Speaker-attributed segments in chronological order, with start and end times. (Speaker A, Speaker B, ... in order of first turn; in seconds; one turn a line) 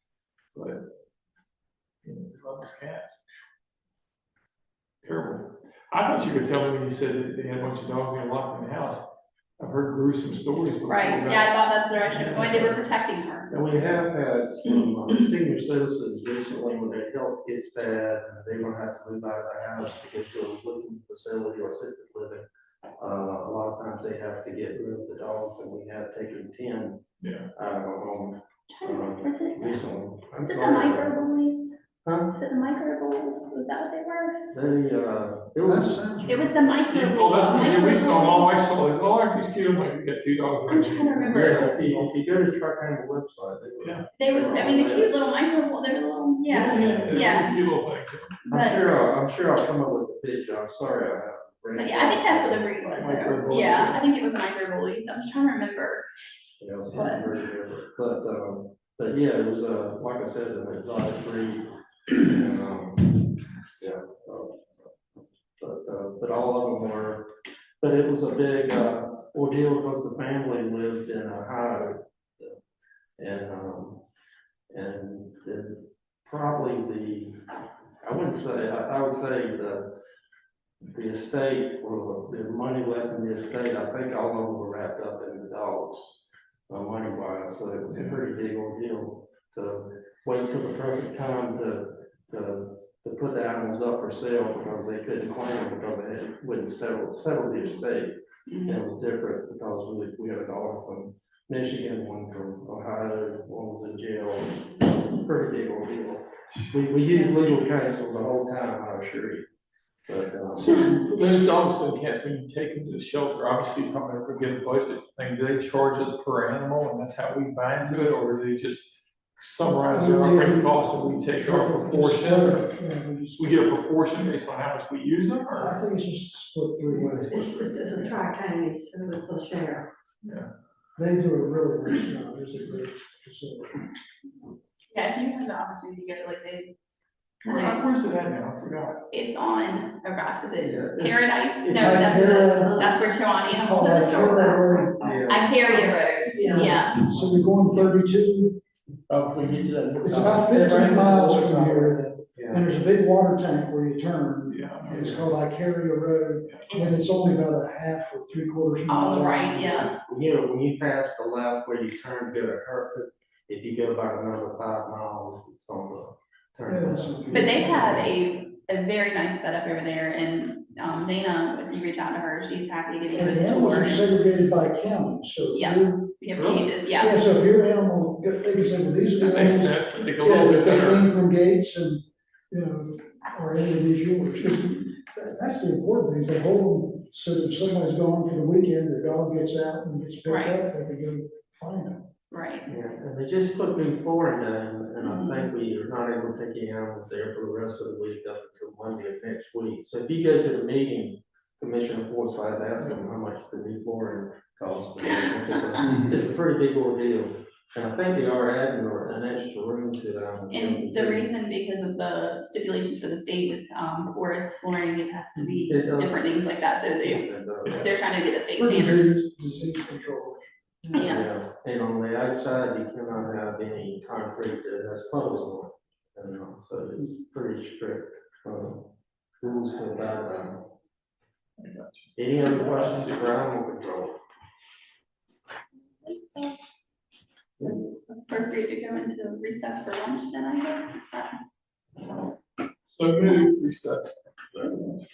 Speaker A: 0.5-0.8
Speaker A: 2.0-3.2
Speaker A: 5.0-9.1
Speaker A: 9.6-12.8
Speaker B: 10.9-13.6
Speaker C: 13.5-22.4
Speaker C: 23.0-27.0
Speaker A: 27.2-27.5
Speaker C: 27.6-31.1
Speaker B: 28.7-29.8
Speaker B: 30.4-31.7
Speaker C: 32.0-32.4
Speaker B: 32.3-34.5
Speaker C: 34.5-36.0
Speaker D: 35.6-36.7
Speaker B: 36.3-38.5
Speaker A: 36.9-41.9
Speaker B: 40.7-42.0
Speaker C: 41.3-45.2
Speaker B: 44.2-47.6
Speaker A: 46.5-48.4
Speaker C: 46.7-47.1
Speaker B: 48.5-49.0
Speaker C: 48.5-52.7
Speaker B: 51.8-56.1
Speaker A: 52.8-54.0
Speaker C: 56.6-63.2
Speaker B: 56.9-57.2
Speaker C: 63.8-64.6
Speaker C: 65.6-72.6
Speaker C: 73.2-74.0
Speaker C: 74.7-77.5
Speaker C: 78.0-79.9
Speaker C: 80.8-98.1
Speaker A: 87.9-88.2
Speaker B: 98.5-98.8
Speaker C: 98.7-109.5
Speaker B: 107.1-107.6
Speaker C: 110.1-110.8
Speaker A: 110.6-122.6
Speaker D: 119.9-123.8
Speaker A: 123.4-125.8
Speaker D: 125.5-127.4
Speaker A: 127.2-128.1
Speaker E: 127.3-129.9
Speaker A: 130.2-130.5
Speaker D: 131.0-133.8
Speaker B: 134.8-136.8
Speaker A: 137.4-139.0
Speaker B: 137.5-137.8
Speaker B: 139.1-147.0
Speaker C: 140.6-142.9
Speaker D: 141.8-142.9
Speaker D: 143.4-145.1
Speaker C: 145.0-145.5
Speaker E: 145.5-146.9
Speaker D: 146.5-148.6
Speaker C: 149.1-152.6
Speaker D: 150.0-159.9
Speaker A: 154.5-155.2
Speaker B: 156.7-157.0
Speaker B: 158.9-159.9
Speaker C: 159.9-168.1
Speaker D: 166.7-168.0
Speaker B: 167.3-174.0
Speaker D: 173.1-176.1
Speaker B: 175.5-177.2
Speaker A: 176.4-176.6
Speaker D: 177.0-192.1
Speaker A: 179.2-181.1
Speaker B: 190.2-190.6
Speaker B: 192.3-192.7
Speaker C: 192.7-211.3
Speaker B: 195.0-195.5
Speaker B: 210.5-219.0
Speaker C: 215.6-216.4
Speaker C: 217.0-217.9
Speaker A: 217.7-217.9
Speaker D: 218.6-221.2
Speaker B: 220.9-221.3
Speaker C: 221.0-230.6
Speaker A: 231.6-233.4
Speaker C: 232.2-234.2
Speaker B: 236.0-236.6
Speaker B: 237.6-241.3
Speaker A: 242.9-245.0